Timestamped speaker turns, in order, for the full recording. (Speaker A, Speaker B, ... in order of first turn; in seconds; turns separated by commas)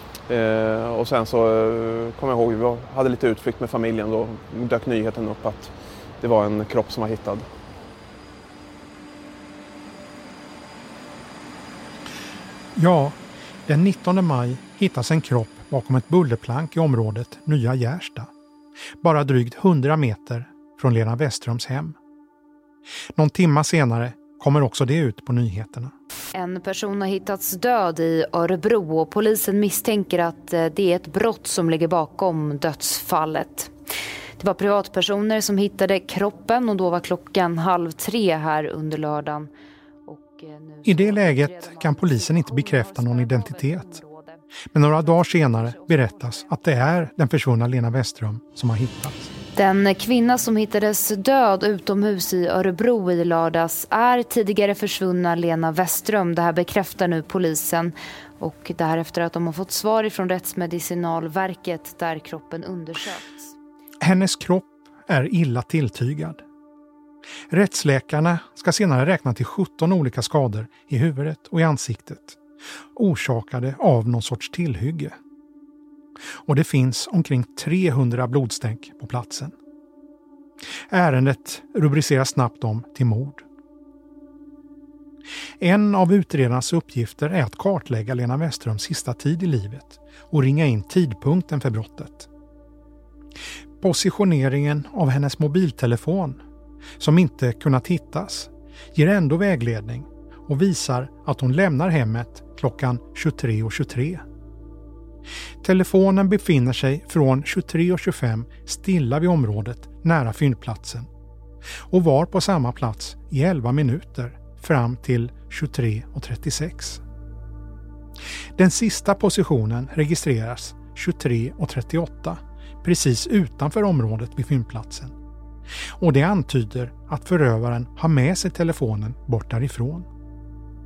Speaker A: 0.3-7.5, Speaker B: 12.8-18.3, Speaker B: 19.0-22.0, Speaker B: 23.1-25.9, Speaker C: 26.3-33.7, Speaker C: 34.4-39.5, Speaker C: 40.1-44.4, Speaker B: 40.9-44.0, Speaker B: 44.7-49.3, Speaker C: 44.9-46.5, Speaker C: 49.5-63.5, Speaker B: 64.0-66.4, Speaker B: 67.5-72.4, Speaker B: 73.0-75.2, Speaker B: 76.5-79.5, Speaker B: 80.9-83.4, Speaker B: 85.6-92.3, Speaker B: 93.8-96.4, Speaker B: 97.0-104.2, Speaker B: 105.6-111.1, Speaker B: 111.9-117.0, Speaker B: 118.6-125.2, Speaker B: 126.0-130.1